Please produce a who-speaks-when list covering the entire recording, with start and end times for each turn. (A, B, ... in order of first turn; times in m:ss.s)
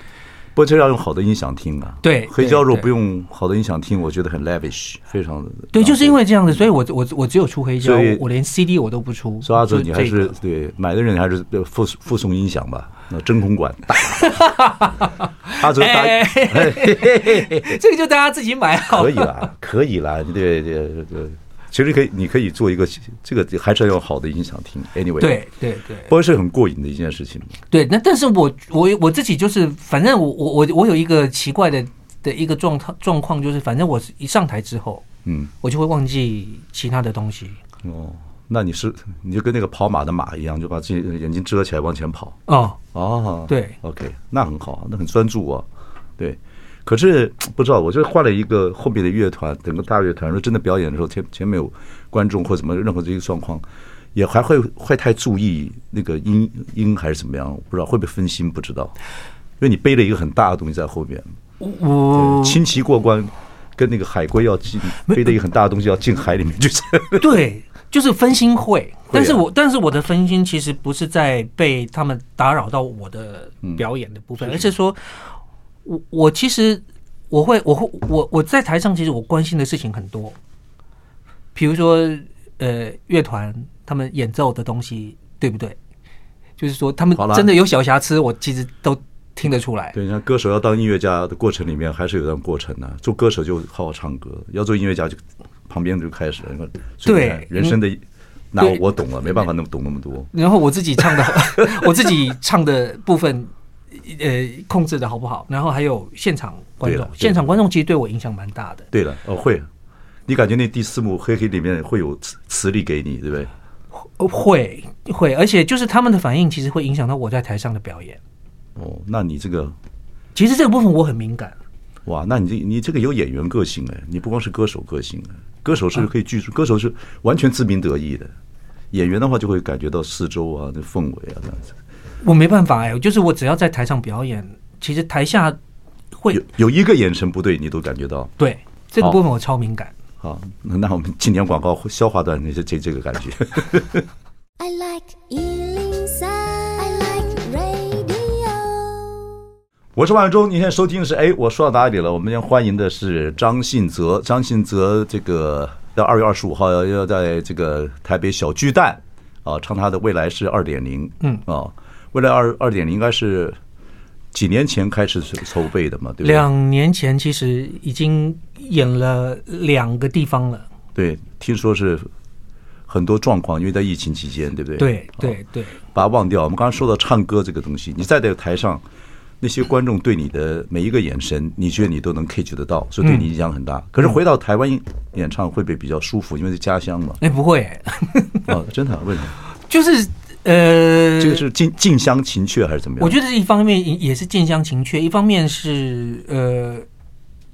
0:00.6-0:06.2 A
0:02.0-0:02.9 B
0:05.7-0:10.3 B
0:07.8-0:08.2 A
0:09.4-0:14.4 A
0:14.1-0:19.4 B
0:15.6-0:17.7 A
0:18.9-0:25.4 A
0:25.2-0:26.1 B
0:26.1-0:27.6 A
0:27.7-0:35.0 B
0:35.2-0:35.5 A
0:35.6-0:37.6 B
0:37.8-0:42.4 A
0:42.5-0:42.8 B
0:42.9-0:45.7 A
0:43.5-0:43.8 B
0:46.2-0:53.6 A
0:54.1-0:58.9 A
0:59.6-1:01.2 A
1:01.6-1:02.6 B
1:02.1-1:07.3 A
1:07.2-1:15.0 B
1:09.1-1:09.4 A
1:14.4-1:14.7 A
1:15.8-1:20.4 B
1:21.5-1:25.8 B
1:26.6-1:29.9 B
1:27.1-1:27.5 A
1:29.9-1:40.3 A
1:37.0-1:37.8 B
1:40.3-1:48.9 B
1:41.0-1:42.1 A
1:46.8-1:47.5 A
1:48.9-1:49.7 A
1:50.3-1:53.5 A
1:54.2-1:58.2 B
1:58.8-1:59.7 A
2:00.3-2:01.6 B
2:02.0-2:08.3 A
2:08.9-2:11.7 A
2:12.2-2:15.6 B
2:16.1-2:16.4 B
2:16.3-2:18.3 A
2:18.4-2:19.9 B
2:20.2-2:24.0 A
2:24.6-2:29.4 C
2:29.9-2:43.6 A
2:44.3-2:46.4 A
2:46.2-2:50.6 B
2:50.9-2:52.1 A
2:52.9-2:55.4 A
2:54.8-2:55.8 B
2:55.9-2:58.8 A
2:59.4-3:07.2 A
3:03.0-3:03.3 B
3:07.2-3:08.5 B
3:08.5-3:09.3 A
3:09.7-3:11.4 B
3:11.2-3:13.2 A
3:13.0-3:16.8 B